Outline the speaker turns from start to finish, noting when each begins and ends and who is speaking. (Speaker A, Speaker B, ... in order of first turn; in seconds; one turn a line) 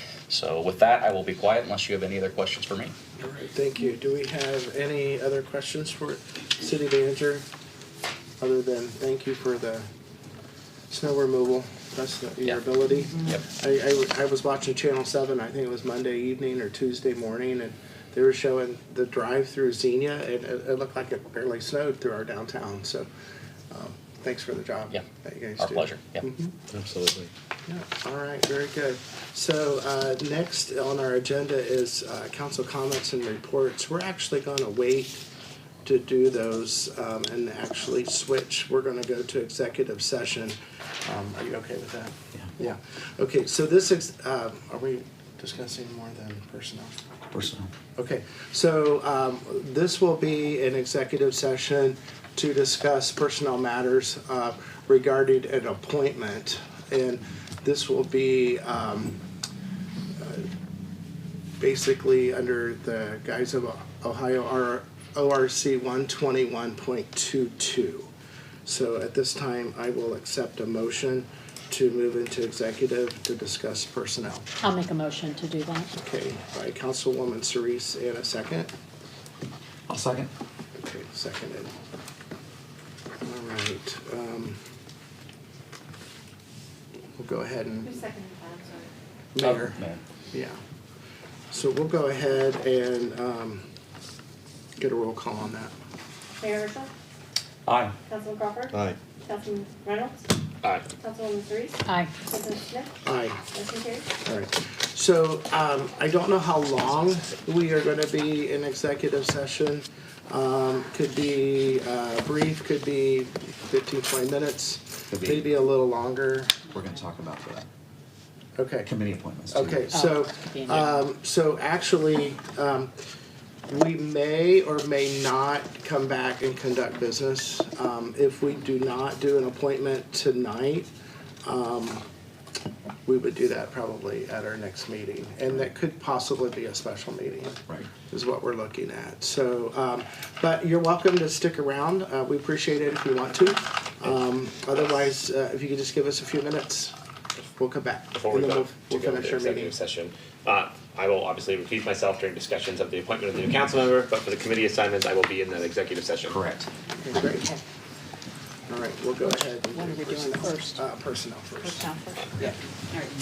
Speaker A: 0.3-2.9
Speaker B: 3.2-7.4
Speaker B: 8.4-9.9
Speaker B: 10.9-23.1
Speaker B: 23.7-26.5
Speaker A: 25.6-26.3
Speaker C: 26.7-27.3
Speaker B: 27.7-35.2
Speaker B: 35.9-47.0
Speaker A: 47.4-47.6
Speaker B: 48.0-59.2
Speaker B: 60.2-60.5
Speaker B: 61.6-68.1
Speaker B: 68.7-74.5
Speaker D: 74.6-75.9
Speaker B: 75.9-78.7
Speaker E: 79.9-80.3
Speaker B: 80.8-81.7
Speaker B: 83.2-84.6
Speaker B: 87.2-88.0
Speaker F: 87.8-88.9
Speaker B: 89.3-89.8
Speaker A: 89.4-90.0
Speaker B: 90.3-90.6
Speaker B: 91.5-93.6
Speaker B: 94.8-95.7
Speaker F: 96.4-96.9
Speaker A: 97.7-97.9
Speaker F: 98.1-100.3
Speaker C: 98.7-99.0
Speaker F: 100.9-102.9
Speaker D: 101.9-102.1
Speaker B: 103.0-103.4
Speaker F: 103.5-104.1
Speaker B: 104.2-116.6
Speaker E: 115.1-115.4
Speaker E: 116.7-117.7
Speaker B: 118.6-118.9
Speaker E: 118.9-119.9
Speaker B: 119.5-122.9
Speaker D: 119.9-121.0
Speaker B: 123.7-130.9
Speaker B: 131.4-132.0
Speaker B: 133.1-146.9
Speaker B: 147.5-149.8
Speaker C: 148.1-156.4
Speaker A: 156.3-156.7
Speaker B: 157.0-157.4
Speaker D: 157.1-157.6
Speaker B: 158.7-161.8
Speaker D: 159.3-160.8
Speaker D: 161.7-163.0